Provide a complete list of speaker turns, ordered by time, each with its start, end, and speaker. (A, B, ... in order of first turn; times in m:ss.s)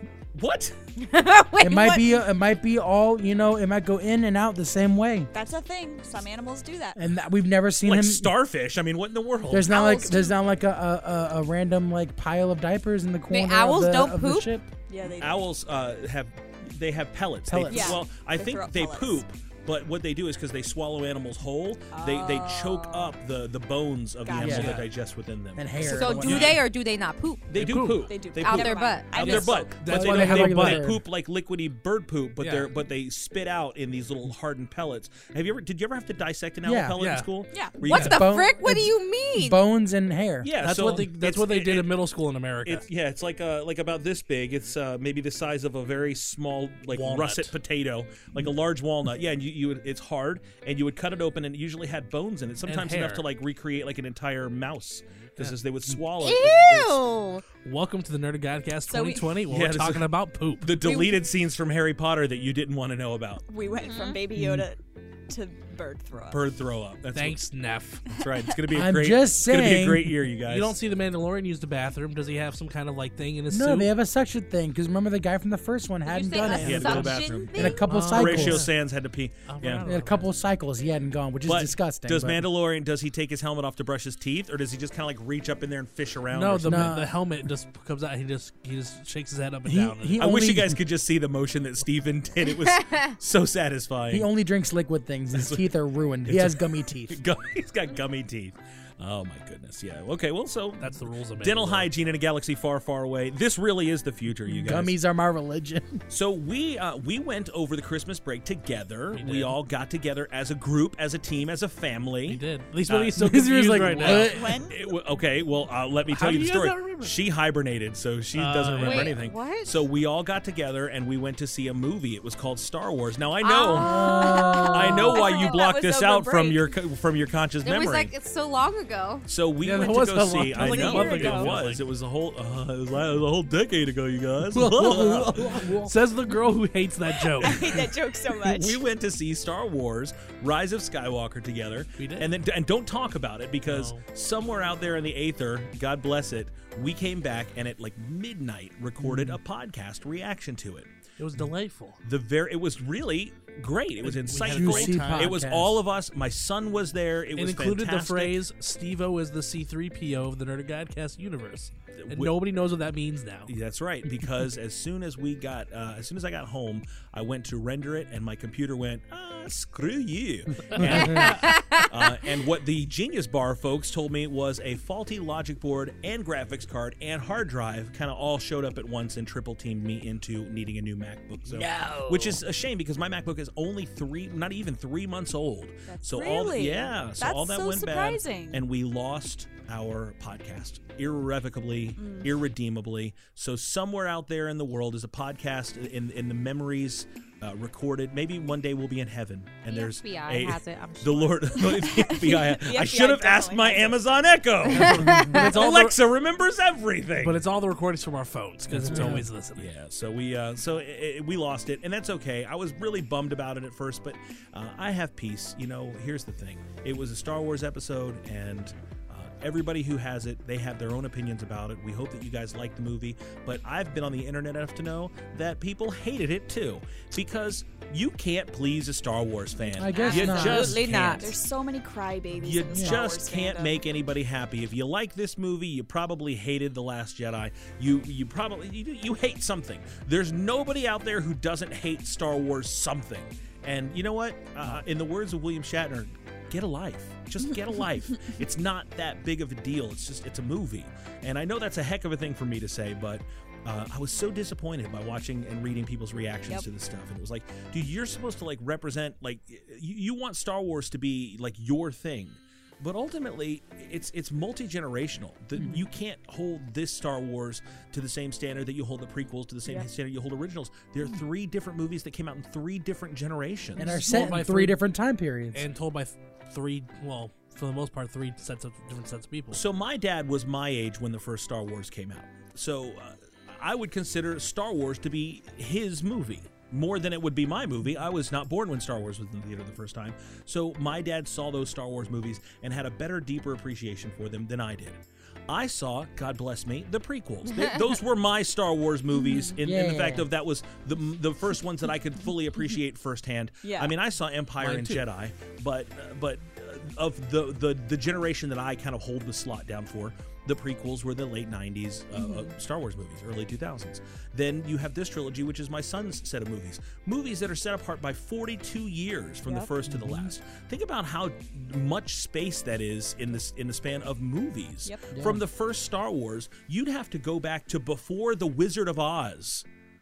0:00.3-0:00.8 A
0:01.0-0:02.1 B
0:01.6-0:05.3 C
0:05.3-0:07.0 D
0:07.0-0:08.3 C
0:07.8-0:09.7 A
0:09.5-0:14.7 C
0:09.7-0:10.4 B
0:13.3-0:14.5 B
0:14.9-0:15.5 D
0:15.2-0:26.6 A
0:17.5-0:18.0 C
0:17.7-0:19.2 D
0:21.9-0:23.2 D
0:24.2-0:24.8 D
0:24.4-0:24.8 C
0:24.4-0:24.9 E
0:25.6-0:26.6 C
0:25.8-0:27.7 B
0:27.5-0:38.3 A
0:27.6-0:28.1 E
0:28.0-0:29.8 D
0:28.4-0:29.4 B
0:29.2-0:30.9 E
0:29.8-0:31.0 C
0:32.4-0:32.7 E
0:36.6-0:37.0 C
0:37.0-0:37.3 E
0:37.5-0:37.8 D
0:37.8-0:39.6 B
0:37.8-0:41.0 C
0:40.4-0:41.9 A
0:40.6-0:42.8 E
0:42.6-0:57.0 A
0:46.9-0:47.5 E
0:52.6-0:53.2 E
0:56.2-0:57.4 B
0:57.6-1:00.7 E
0:58.9-0:59.4 D
0:59.5-1:00.1 A
1:00.6-1:03.4 A
1:00.8-1:01.2 D
1:03.5-1:06.4 D
1:03.8-1:04.2 B
1:04.3-1:04.7 C
1:06.3-1:07.4 A
1:07.1-1:08.0 E
1:08.1-1:10.8 A
1:08.2-1:08.5 D
1:08.7-1:10.3 C
1:10.4-1:13.9 E
1:13.5-1:18.7 C
1:16.1-1:17.9 B
1:16.5-1:17.2 E
1:16.5-1:19.9 A
1:17.8-1:18.7 E
1:19.4-1:20.3 E
1:19.8-1:22.4 C
1:21.4-1:27.0 A
1:26.3-1:30.3 E
1:26.6-1:27.1 C
1:29.6-1:30.8 C
1:30.2-1:34.3 A
1:32.4-1:33.1 B
1:34.1-1:37.2 C
1:35.3-1:35.7 A
1:36.2-1:45.0 A
1:40.8-1:41.9 E
1:44.5-1:46.0 C
1:46.1-1:53.2 A
1:49.1-1:49.6 E
1:52.2-1:54.3 E
1:53.2-1:54.6 C
1:53.8-2:03.9 A
1:54.1-1:54.8 D
1:56.1-1:57.1 E
1:58.3-1:59.1 E
1:58.8-1:59.8 B
2:03.4-2:05.5 B
2:03.7-2:05.2 C
2:03.9-2:06.7 D
2:04.6-2:08.1 A
2:07.6-2:09.3 B
2:09.3-2:15.4 A
2:09.6-2:11.8 E
2:10.6-2:11.6 D
2:14.5-2:17.8 E
2:14.8-2:16.0 C
2:17.3-2:18.8 D
2:18.4-2:30.9 A
2:22.0-2:22.3 E
2:23.6-2:24.0 E
2:29.0-2:29.4 C
2:31.2-2:32.0 E
2:32.0-2:38.4 A
2:34.0-2:35.4 E
2:34.3-2:35.8 C
2:37.4-2:43.5 E
2:42.0-2:42.4 A
2:43.5-3:27.4 A
2:50.8-2:51.3 C
2:51.1-2:51.9 B
3:01.5-3:02.1 E
3:05.9-3:08.6 D
3:12.0-3:12.3 D
3:19.6-3:21.7 B
3:21.7-3:24.0 D
3:24.7-3:26.1 E
3:25.0-3:25.4 C
3:27.2-3:29.7 E
3:28.7-3:29.3 C
3:29.5-3:51.3 A
3:49.6-3:53.8 D
3:49.8-3:50.9 C
3:50.0-3:51.3 B
3:50.3-3:50.8 E
3:52.3-4:34.0 A
3:52.7-3:53.0 C
4:08.1-4:08.4 D
4:25.6-4:25.8 C
4:33.8-4:35.7 C
4:33.8-4:34.8 E
4:35.5-4:39.6 E
4:39.5-5:29.6 A
4:57.5-4:57.9 B
4:59.1-4:59.6 D
4:59.6-5:00.3 C
5:03.6-5:03.9 D
5:04.6-5:05.1 E
5:12.1-5:12.5 D
5:19.5-5:19.7 D
5:19.9-5:20.3 C
5:25.1-5:25.4 C